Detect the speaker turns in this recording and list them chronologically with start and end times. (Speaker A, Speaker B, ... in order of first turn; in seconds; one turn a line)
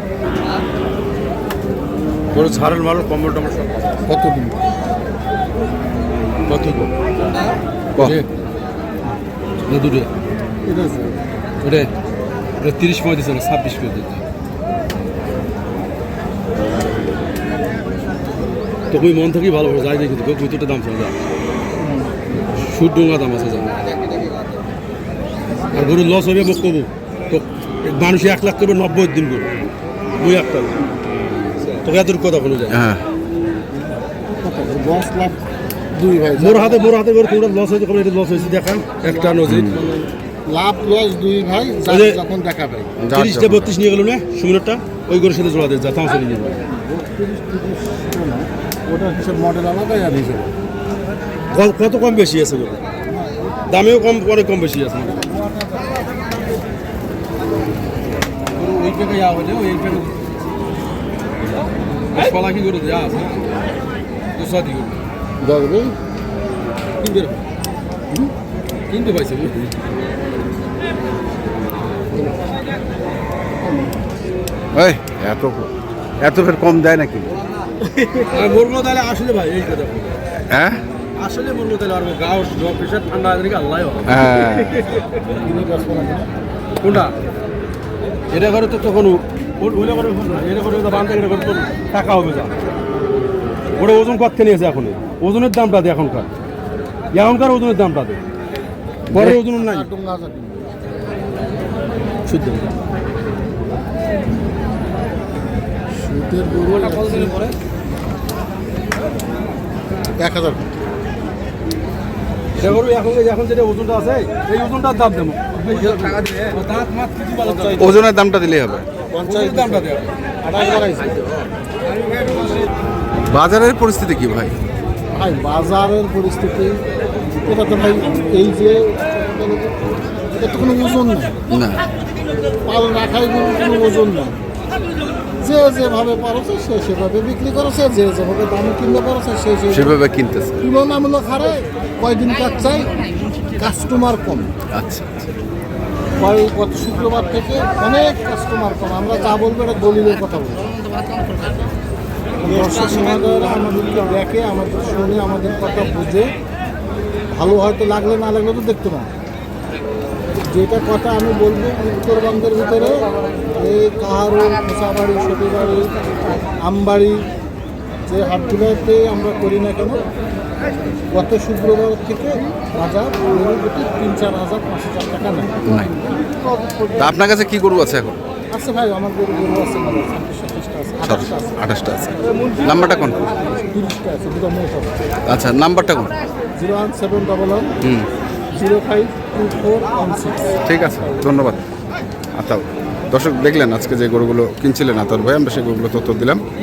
Speaker A: 2.3-4.0
Speaker B: 4.0-4.6
Speaker A: 6.5-6.9
Speaker A: 8.0-8.3
Speaker A: 9.7-10.1
Speaker B: 10.7-11.1
Speaker A: 11.6-11.9
Speaker A: 12.6-14.2
Speaker A: 18.9-21.1
Speaker B: 21.8-22.1
Speaker A: 22.6-23.8
Speaker A: 25.7-29.5
Speaker A: 30.2-30.8
Speaker A: 31.8-32.8
Speaker C: 32.7-33.0
Speaker B: 33.7-35.4
Speaker B: 35.9-36.9
Speaker A: 36.4-39.8
Speaker B: 39.0-42.9
Speaker C: 39.4-39.8
Speaker A: 41.9-42.2
Speaker C: 43.0-43.7
Speaker A: 43.1-46.6
Speaker B: 46.7-50.5
Speaker A: 51.5-52.8
Speaker B: 53.1-53.6
Speaker A: 53.7-55.2
Speaker B: 55.1-56.2
Speaker A: 58.5-60.2
Speaker A: 62.1-63.5
Speaker A: 64.3-65.0
Speaker B: 65.4-65.9
Speaker A: 67.0-67.4
Speaker A: 68.9-69.7
Speaker C: 74.7-77.3
Speaker A: 78.2-80.2
Speaker C: 80.5-80.8
Speaker A: 81.2-85.0
Speaker C: 84.1-84.8
Speaker B: 85.4-86.3
Speaker A: 86.8-87.1
Speaker A: 88.3-92.5
Speaker A: 93.8-96.3
Speaker A: 97.1-98.2
Speaker A: 99.1-99.9
Speaker B: 99.1-100.7
Speaker A: 102.3-102.7
Speaker B: 106.0-107.5
Speaker A: 106.8-107.5
Speaker B: 110.2-110.6
Speaker A: 112.6-118.0
Speaker C: 117.8-118.9
Speaker B: 119.1-119.9
Speaker A: 119.3-120.1
Speaker B: 120.4-121.1
Speaker C: 123.3-124.5
Speaker B: 125.1-126.8
Speaker B: 127.4-129.8
Speaker B: 130.3-131.3
Speaker C: 131.5-131.8
Speaker B: 132.7-134.4
Speaker B: 135.4-139.9
Speaker C: 139.7-140.6
Speaker B: 140.6-143.0
Speaker B: 143.6-144.5
Speaker C: 144.7-145.3
Speaker B: 146.2-150.7
Speaker B: 152.4-156.3
Speaker B: 157.3-159.1
Speaker B: 160.4-165.9
Speaker B: 166.6-167.2
Speaker B: 168.1-170.0
Speaker B: 171.1-175.5
Speaker C: 175.7-175.9
Speaker C: 177.0-178.2
Speaker B: 178.5-181.6
Speaker C: 181.0-183.3
Speaker B: 183.3-185.0
Speaker C: 185.3-186.1
Speaker B: 186.6-187.7
Speaker C: 187.8-188.1
Speaker B: 188.5-191.2
Speaker C: 190.7-191.6
Speaker C: 192.3-196.4